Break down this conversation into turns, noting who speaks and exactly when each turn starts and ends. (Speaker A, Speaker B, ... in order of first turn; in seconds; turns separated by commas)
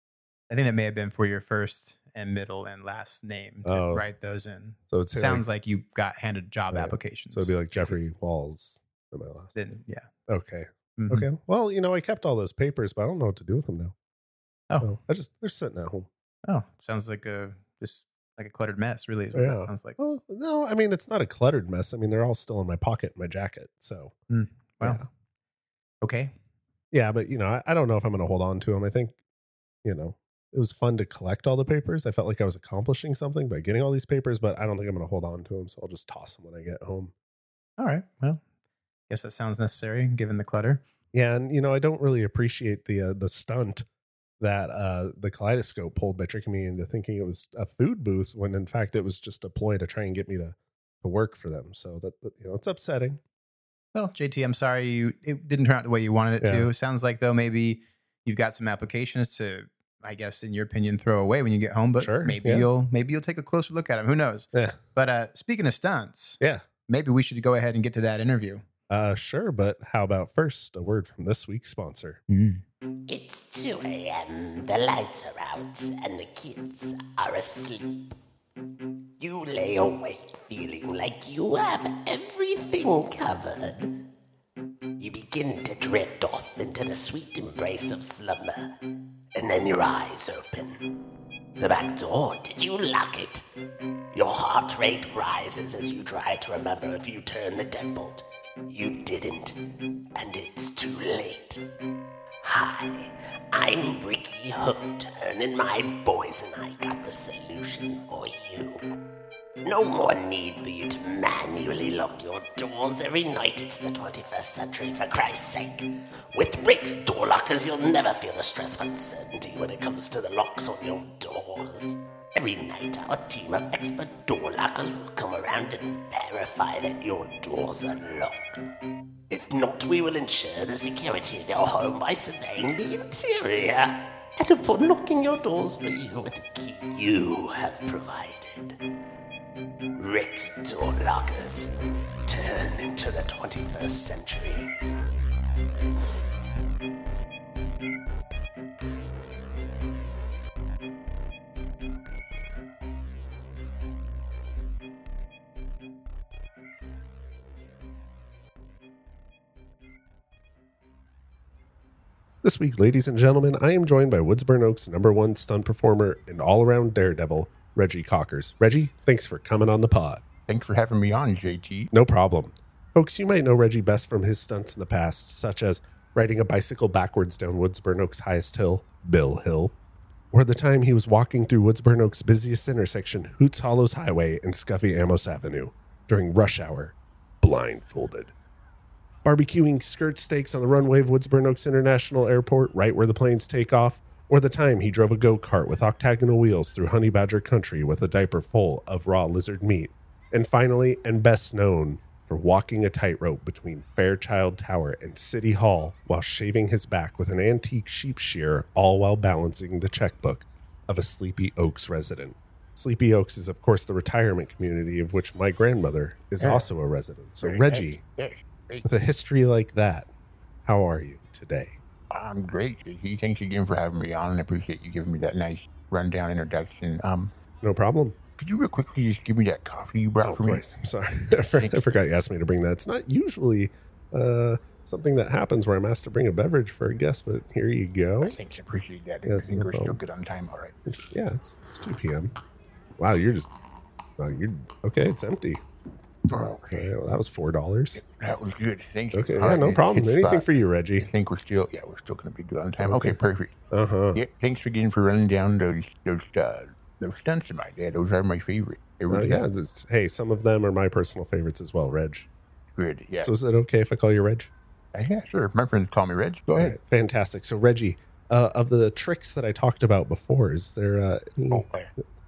Speaker A: 0.5-8.0, Speaker B: 3.6-4.0, Speaker B: 4.9-5.5, Speaker B: 6.7-9.6, Speaker A: 9.6-10.1, Speaker B: 10.3-13.9, Speaker A: 11.0-11.3, Speaker B: 14.8-16.1, Speaker A: 16.5-20.0, Speaker B: 19.3-24.2, Speaker A: 24.3-25.0, Speaker A: 26.0-26.3, Speaker B: 26.9-29.2, Speaker B: 29.8-37.1, Speaker A: 37.8-38.4, Speaker A: 39.1-40.8, Speaker B: 41.1-43.9, Speaker B: 44.4-53.2, Speaker A: 53.9-68.6, Speaker B: 56.4-56.7, Speaker B: 62.0-62.7, Speaker B: 64.5-64.8, Speaker B: 68.9-72.2, Speaker A: 72.3-72.6, Speaker C: 73.1-78.2, Speaker C: 79.2-84.0, Speaker C: 85.0-88.7, Speaker C: 89.3-91.0, Speaker C: 91.6-93.5, Speaker C: 94.1-101.6, Speaker C: 102.4-108.8, Speaker C: 109.6-128.6, Speaker C: 129.3-138.8, Speaker C: 139.9-144.7, Speaker B: 162.4-170.2, Speaker D: 170.5-171.9, Speaker B: 171.9-179.7, Speaker B: 180.3-188.3, Speaker B: 189.2-218.0, Speaker D: 216.4-216.7, Speaker D: 217.4-218.9, Speaker B: 218.8-220.1, Speaker B: 220.7-221.8, Speaker D: 222.1-227.3, Speaker B: 227.6-228.2, Speaker D: 228.4-230.7, Speaker B: 230.2-238.4, Speaker D: 231.5-231.9, Speaker D: 238.2-240.8, Speaker B: 239.3-240.0, Speaker B: 241.0-242.3, Speaker B: 243.0-243.5, Speaker B: 244.2-245.6, Speaker D: 246.3-246.9, Speaker B: 246.7-248.0, Speaker D: 247.9-250.5, Speaker B: 249.1-251.1, Speaker D: 251.0-253.6, Speaker B: 252.8-253.2, Speaker B: 253.7-254.2, Speaker D: 254.1-259.4, Speaker B: 259.1-262.3, Speaker D: 262.8-263.3, Speaker B: 263.2-264.5, Speaker D: 264.9-266.8, Speaker B: 266.6-271.6, Speaker D: 271.5-271.9